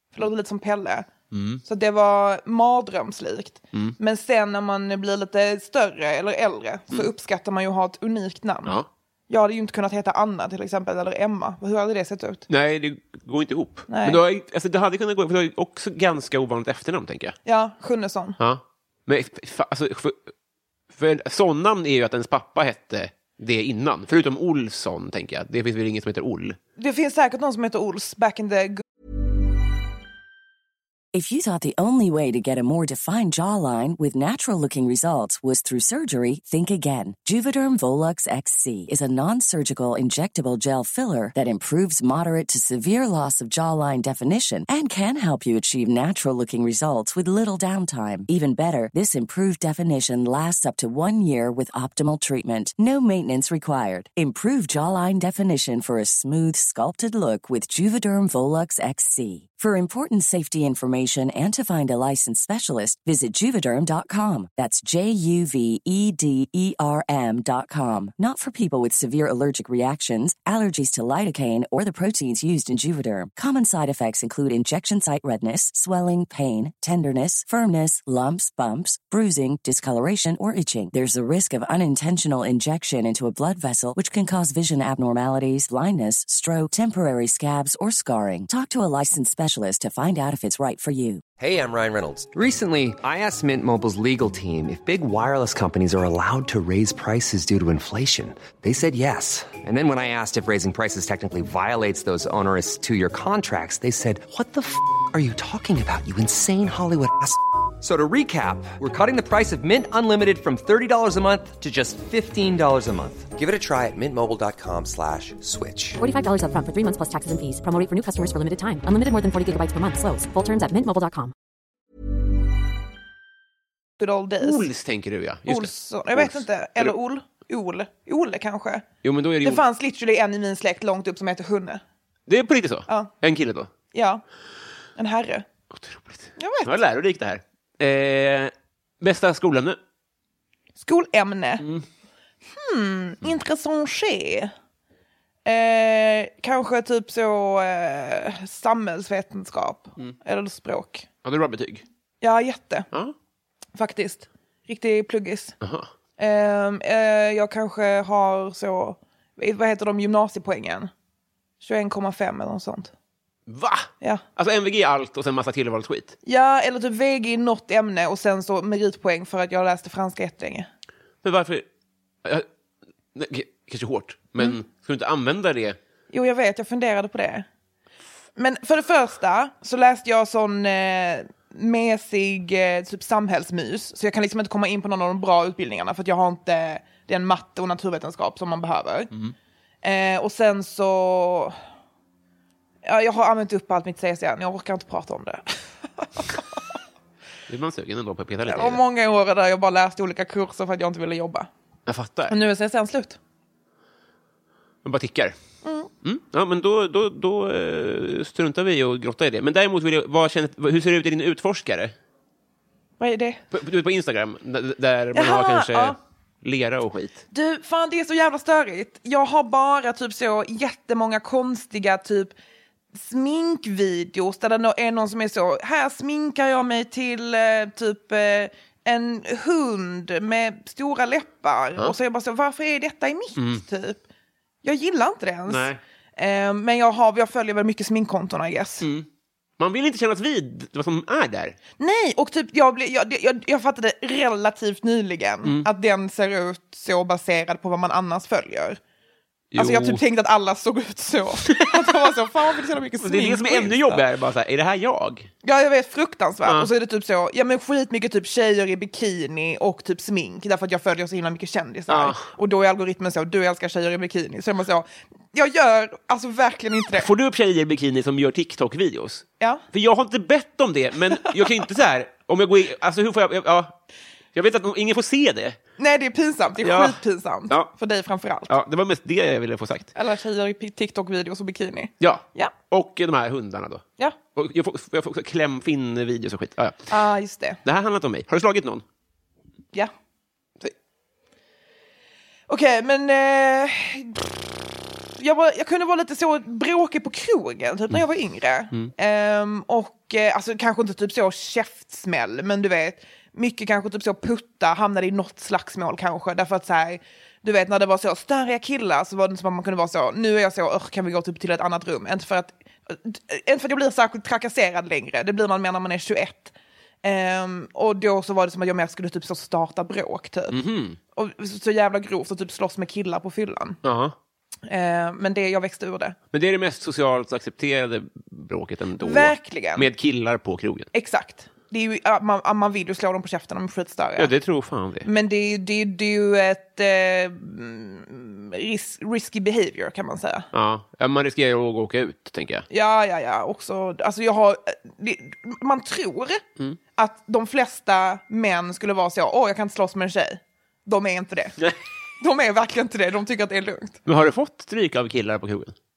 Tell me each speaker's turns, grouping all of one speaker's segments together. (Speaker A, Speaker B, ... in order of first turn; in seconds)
Speaker A: 0.1-1.1, 1.6-12.4, 13.9-14.2, 17.4-18.4, 26.8-28.8, 124.0-124.7, 125.5-128.8, 129.4-131.8, 133.9-134.2, 134.9-135.4, 136.4-136.8, 140.8-141.7, 142.5-144.5, 145.4-151.1, 152.2-152.9, 153.7-155.6, 156.2-160.9, 161.6-162.9, 166.2-170.7, 176.1-177.4, 178.4-189.1, 189.8-191.5, 192.8-196.4, 198.5-201.5, 202.3-203.2, 205.6-205.9, 213.0-213.4, 215.1-216.0, 217.3-222.3, 222.9-234.0, 234.6-238.9, 241.8-248.8, 249.6-254.0, 255.4-267.1, 275.8-278.5, 279.9-282.5, 286.9-287.6, 292.5-294.6, 295.2-320.6, 321.1-323.8, 324.6-326.2, 329.0-329.9, 330.9-334.3, 335.0-340.5, 342.7-346.4, 346.9-351.6, 352.2-354.0
Speaker B: 1.3-1.6, 12.5-17.4, 18.4-20.2, 20.9-26.6, 124.4-126.9, 129.0-129.6, 132.3-133.7, 135.7-139.8, 151.2-151.8, 155.6-155.9, 163.5-166.1, 171.2-171.7, 173.1-175.8, 197.5-198.8, 201.9-202.3, 204.8-205.4, 206.0-211.9, 213.5-217.2, 233.3-233.6, 235.5-235.8, 238.8-239.1, 239.6-241.6, 249.5-250.0, 251.5-252.1, 253.0-255.3, 256.4-256.7, 261.9-262.3, 267.0-273.8, 274.3-275.6, 276.6-277.0, 278.5-279.9, 282.0-283.8, 284.3-286.9, 287.6-288.8, 320.5-321.0, 323.8-324.1, 326.3-330.9, 334.2-335.1, 340.5-342.6, 354.0-355.7
Speaker C: 31.1-91.2
Speaker D: 91.4-116.0
Speaker E: 116.0-121.3